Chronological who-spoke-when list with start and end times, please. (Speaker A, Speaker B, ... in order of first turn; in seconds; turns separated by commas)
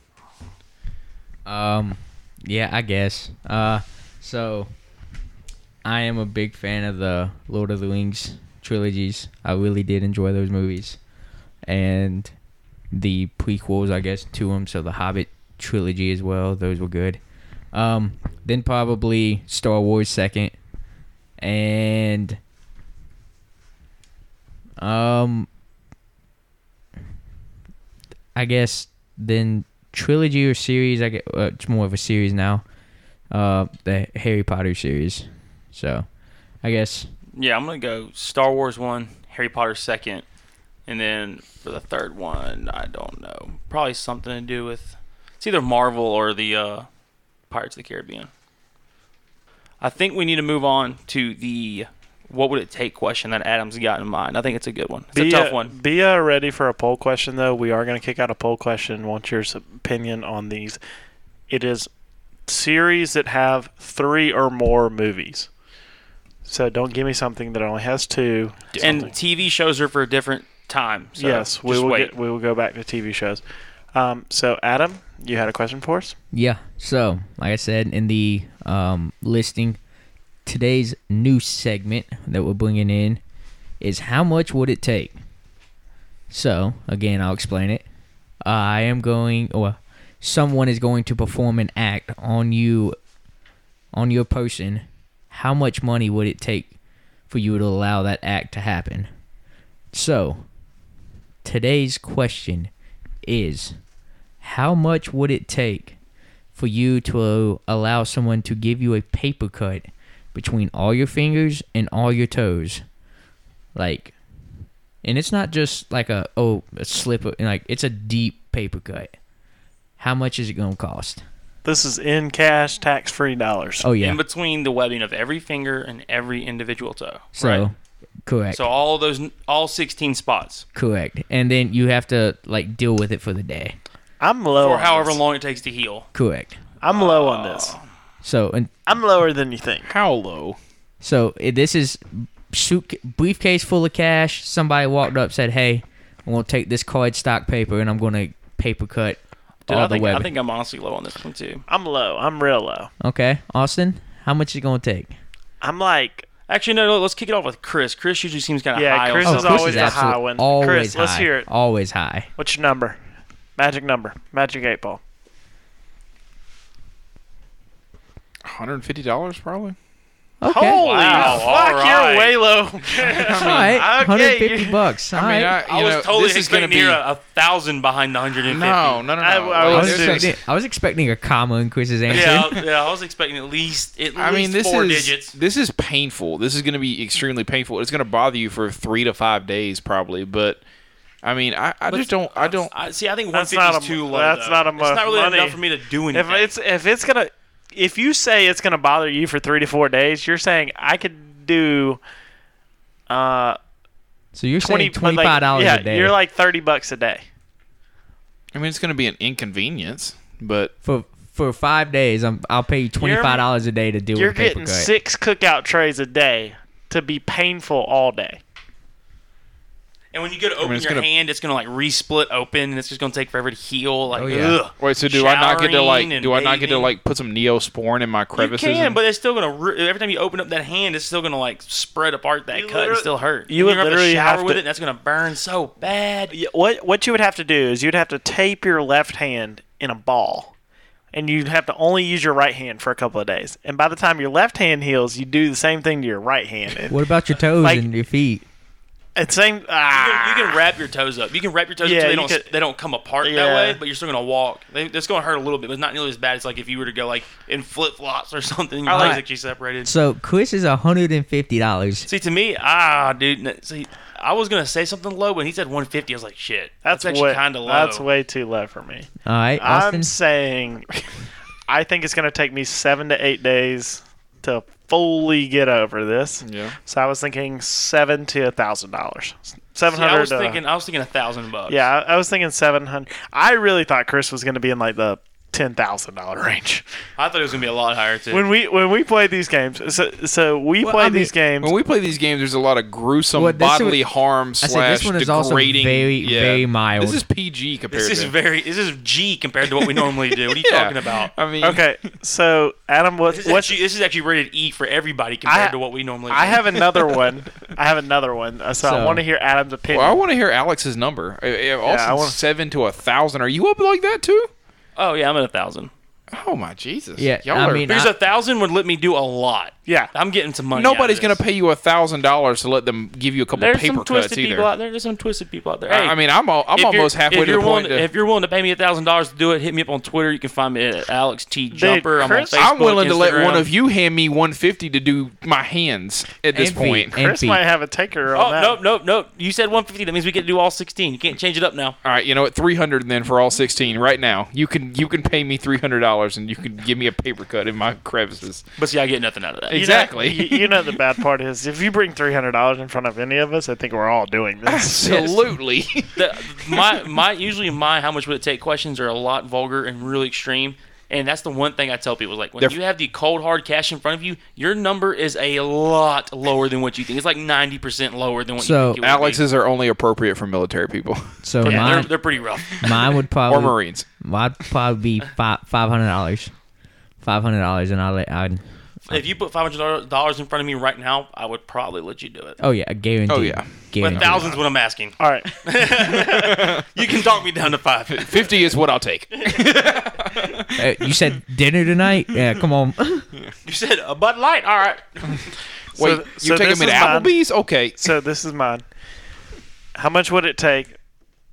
Speaker A: 1.4-4.7, Speaker A: 5.8-11.0, Speaker A: 11.7-12.3, Speaker A: 12.9-17.2, Speaker A: 17.7-20.5, Speaker A: 21.4-22.4, Speaker A: 24.8-25.5, Speaker A: 28.3-32.6, Speaker A: 33.3-36.0, Speaker A: 36.6-37.1, Speaker B: 37.3-40.2, Speaker B: 40.9-46.9, Speaker B: 47.5-48.3, Speaker B: 49.8-55.7, Speaker C: 55.1-60.8, Speaker C: 61.5-61.9, Speaker C: 62.5-65.5, Speaker C: 66.4-69.1, Speaker D: 68.7-69.1, Speaker B: 68.8-72.1, Speaker C: 71.2-73.4, Speaker C: 73.9-76.1, Speaker A: 76.3-79.8, Speaker A: 80.5-83.2, Speaker A: 83.8-85.2, Speaker A: 86.3-87.8, Speaker A: 88.4-93.0, Speaker A: 93.9-96.7, Speaker A: 97.3-99.1, Speaker A: 99.9-100.4, Speaker A: 101.4-102.7, Speaker A: 103.2-103.8, Speaker A: 104.4-106.0, Speaker A: 106.5-112.8, Speaker A: 113.7-114.1, Speaker A: 115.0-119.1, Speaker A: 120.0-121.2, Speaker C: 121.6-123.9, Speaker A: 123.8-124.2, Speaker B: 124.0-127.7, Speaker A: 127.3-128.6, Speaker B: 128.5-130.6, Speaker A: 130.7-133.8, Speaker C: 134.2-135.2, Speaker B: 134.5-136.1, Speaker A: 136.1-136.6, Speaker C: 136.8-137.8, Speaker B: 136.9-137.8, Speaker A: 138.2-138.7, Speaker C: 138.9-139.9, Speaker D: 139.8-140.6, Speaker A: 141.0-150.3, Speaker B: 149.7-151.6, Speaker C: 151.7-152.9, Speaker A: 153.0-155.2, Speaker C: 155.6-156.3, Speaker B: 156.5-160.0, Speaker C: 158.7-161.5, Speaker A: 159.2-162.3, Speaker C: 162.4-163.0, Speaker C: 163.6-165.0, Speaker D: 168.4-169.8, Speaker A: 170.4-171.2, Speaker C: 170.4-174.8, Speaker B: 170.8-172.4, Speaker D: 171.1-171.4, Speaker D: 173.0-173.8, Speaker A: 173.3-175.5, Speaker D: 175.1-177.0, Speaker B: 175.6-179.0, Speaker D: 178.5-180.3, Speaker C: 179.2-180.3, Speaker A: 179.7-182.6, Speaker B: 182.1-185.3, Speaker D: 184.2-190.6, Speaker D: 191.2-192.7, Speaker B: 191.9-196.5, Speaker C: 193.3-195.6, Speaker C: 196.1-202.0, Speaker C: 203.1-203.6, Speaker A: 204.3-206.1, Speaker C: 204.6-207.2, Speaker D: 208.5-210.7, Speaker A: 210.8-214.9, Speaker B: 213.0-213.4, Speaker C: 214.1-218.4, Speaker B: 220.1-226.9, Speaker D: 220.6-221.1, Speaker A: 224.1-224.6, Speaker D: 224.8-229.0, Speaker B: 228.3-236.3, Speaker C: 232.5-234.6, Speaker C: 236.3-240.5, Speaker C: 241.1-247.1, Speaker A: 246.9-248.4, Speaker C: 247.6-247.8, Speaker C: 249.2-250.6, Speaker B: 249.9-259.9, Speaker C: 251.8-252.5, Speaker C: 253.2-253.8, Speaker C: 258.9-259.2, Speaker A: 258.9-259.2, Speaker A: 259.8-262.1, Speaker B: 262.1-268.0, Speaker C: 266.8-270.9, Speaker A: 269.2-270.1, Speaker C: 271.7-280.6, Speaker D: 276.4-276.8, Speaker B: 279.9-281.8, Speaker C: 281.7-286.8, Speaker B: 287.2-288.5, Speaker C: 288.3-291.7, Speaker A: 290.8-291.3, Speaker D: 291.6-298.3, Speaker A: 293.3-294.0, Speaker A: 294.6-297.2, Speaker B: 297.9-301.3, Speaker D: 300.4-301.8, Speaker C: 301.6-303.8, Speaker B: 303.3-307.2, Speaker C: 305.4-305.7, Speaker C: 306.3-310.2, Speaker A: 308.8-309.2, Speaker D: 309.9-314.5, Speaker C: 311.8-312.4, Speaker B: 314.9-315.9, Speaker D: 316.3-317.9, Speaker A: 317.2-318.1, Speaker B: 317.9-321.4, Speaker D: 320.7-324.7, Speaker B: 323.5-326.2, Speaker D: 325.9-328.1, Speaker B: 326.7-333.7, Speaker C: 331.7-332.7, Speaker D: 332.5-337.1, Speaker A: 336.5-337.6, Speaker C: 337.1-338.8, Speaker B: 338.3-341.9, Speaker D: 342.0-348.6, Speaker B: 348.8-349.8, Speaker D: 349.7-351.0, Speaker C: 349.7-355.4, Speaker D: 354.6-357.0, Speaker B: 356.1-369.4, Speaker A: 368.6-369.0, Speaker D: 369.0-371.4, Speaker A: 371.4-372.2, Speaker B: 371.6-372.9, Speaker C: 371.6-372.0, Speaker A: 372.8-376.5, Speaker D: 373.4-374.1, Speaker A: 377.2-379.2, Speaker B: 379.1-382.6, Speaker A: 382.6-384.4, Speaker D: 383.3-384.6, Speaker B: 384.0-388.6, Speaker C: 385.2-386.2, Speaker D: 386.3-386.8, Speaker D: 388.1-391.1, Speaker A: 390.7-393.3, Speaker B: 393.6-395.5, Speaker D: 395.9-398.1, Speaker C: 395.9-397.4, Speaker C: 398.0-398.8, Speaker C: 399.9-400.9